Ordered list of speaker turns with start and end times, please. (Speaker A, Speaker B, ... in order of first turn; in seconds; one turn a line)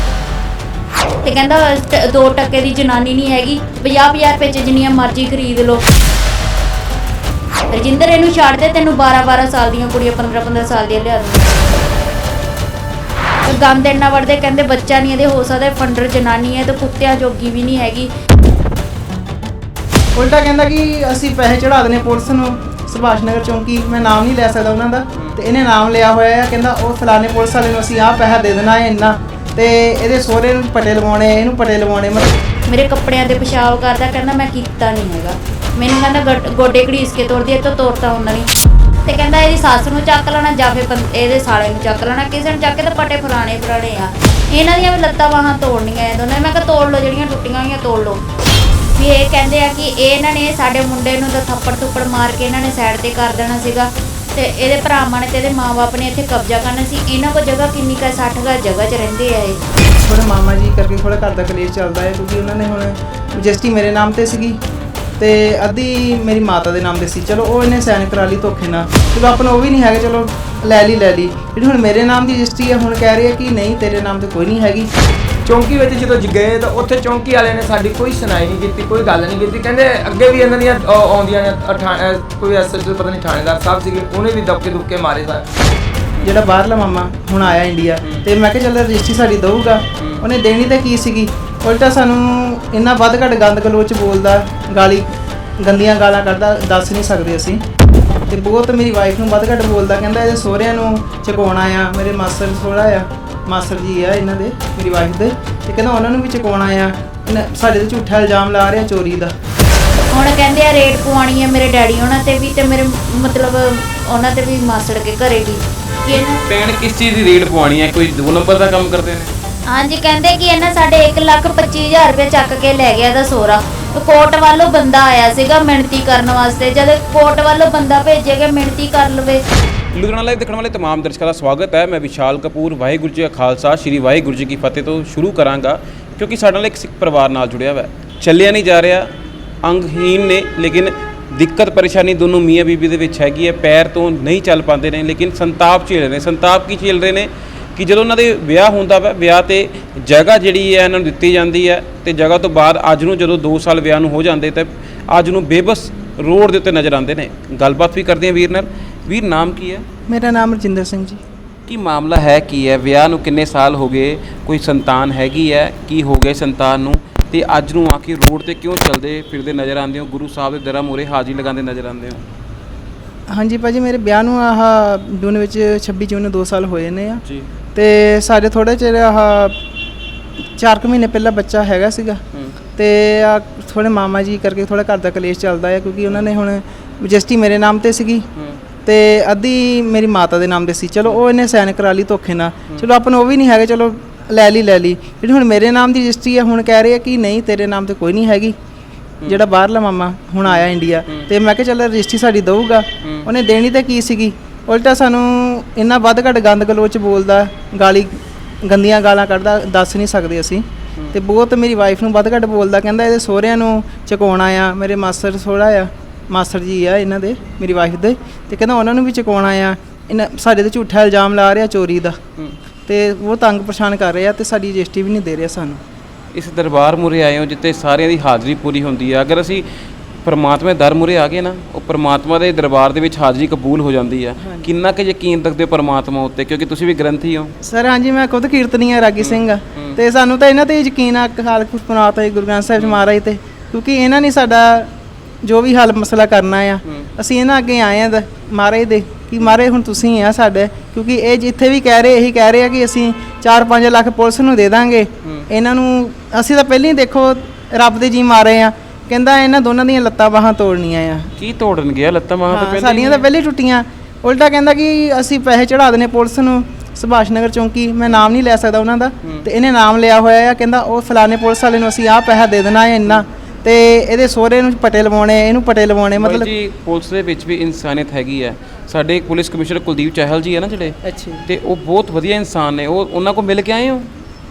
Speaker A: 1.2-5.8
Speaker A: 7.7-11.6
Speaker A: 13.4-18.1
Speaker B: 20.1-32.4
Speaker A: 32.7-38.5
Speaker A: 39.0-48.2
Speaker A: 49.0-59.6
Speaker B: 60.0-64.6
Speaker B: 65.2-74.9
Speaker C: 75.5-85.5
Speaker D: 86.2-86.4
Speaker B: 86.2-97.6
Speaker D: 90.0-90.2
Speaker B: 98.3-109.3
Speaker A: 110.1-116.4
Speaker D: 116.5-119.3
Speaker A: 119.7-129.4
Speaker D: 129.9-139.1
Speaker D: 139.6-159.8
Speaker B: 160.1-161.2
Speaker D: 161.7-172.2
Speaker B: 173.3-177.2
Speaker B: 177.8-179.6
Speaker B: 180.6-182.2
Speaker B: 182.8-188.3
Speaker D: 188.3-188.6
Speaker B: 188.8-198.6
Speaker B: 199.2-222.2
Speaker D: 200.4-201.3
Speaker D: 203.0-203.3
Speaker B: 222.9-225.8
Speaker D: 226.3-229.7
Speaker D: 230.2-237.5
Speaker B: 234.4-234.7
Speaker B: 237.6-244.9
Speaker D: 239.2-240.0
Speaker B: 245.4-261.3
Speaker D: 255.2-255.5
Speaker D: 261.4-263.3
Speaker B: 262.5-276.5
Speaker D: 276.2-284.1
Speaker B: 281.0-281.4